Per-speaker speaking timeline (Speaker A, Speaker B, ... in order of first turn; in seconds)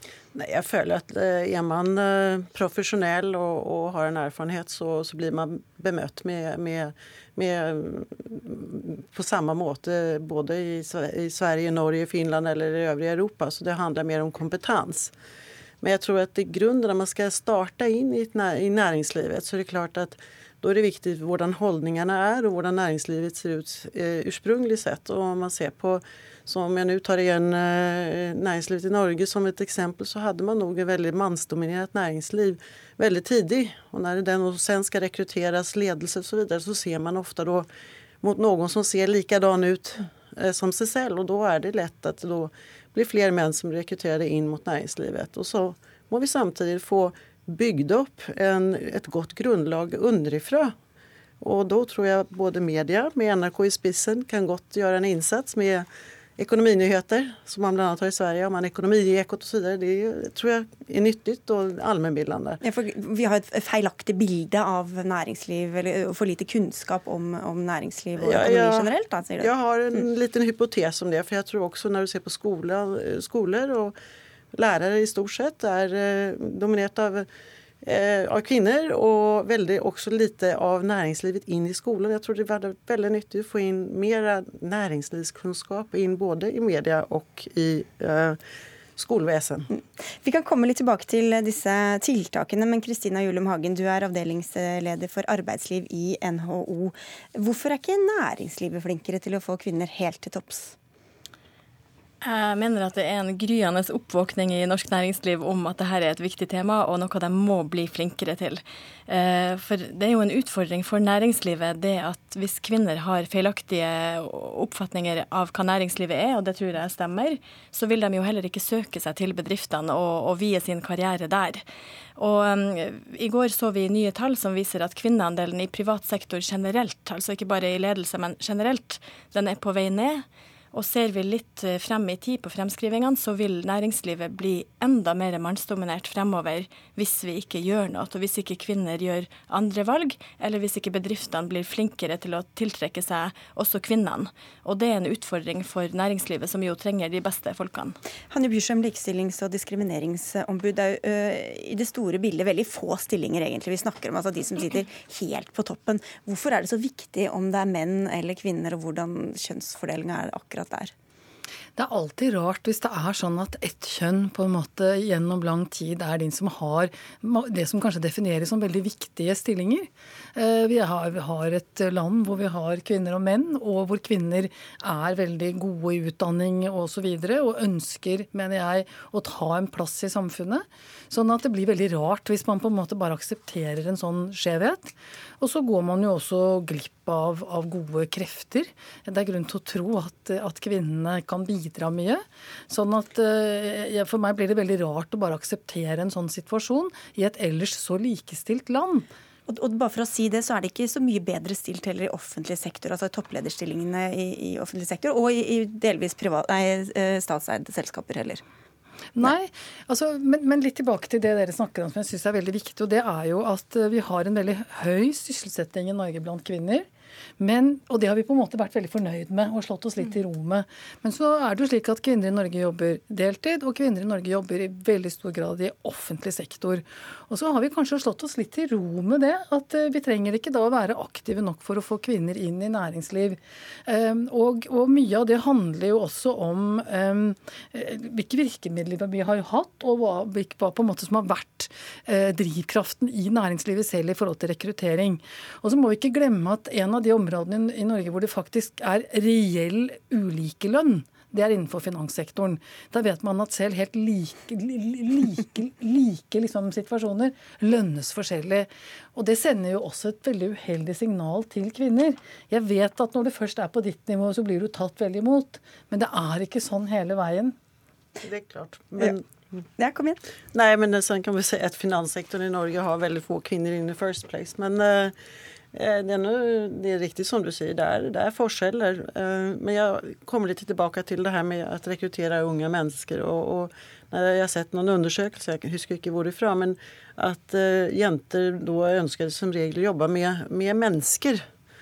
Speaker A: 0.3-15.1, 15.8-37.7, 38.2-50.7, 51.4-55.9, 56.4-62.6, 68.2-73.9, 74.5-77.3, 77.8-88.4, 89.0-89.7, 268.2-269.2, 270.5-275.1, 275.7-291.4
Speaker B: 62.6-69.5, 89.7-100.7, 148.3-160.9, 199.5-208.4, 269.8-270.2
Speaker C: 102.2-121.6, 122.2-148.0
Speaker D: 161.8-199.1, 209.1-216.9, 217.4-267.6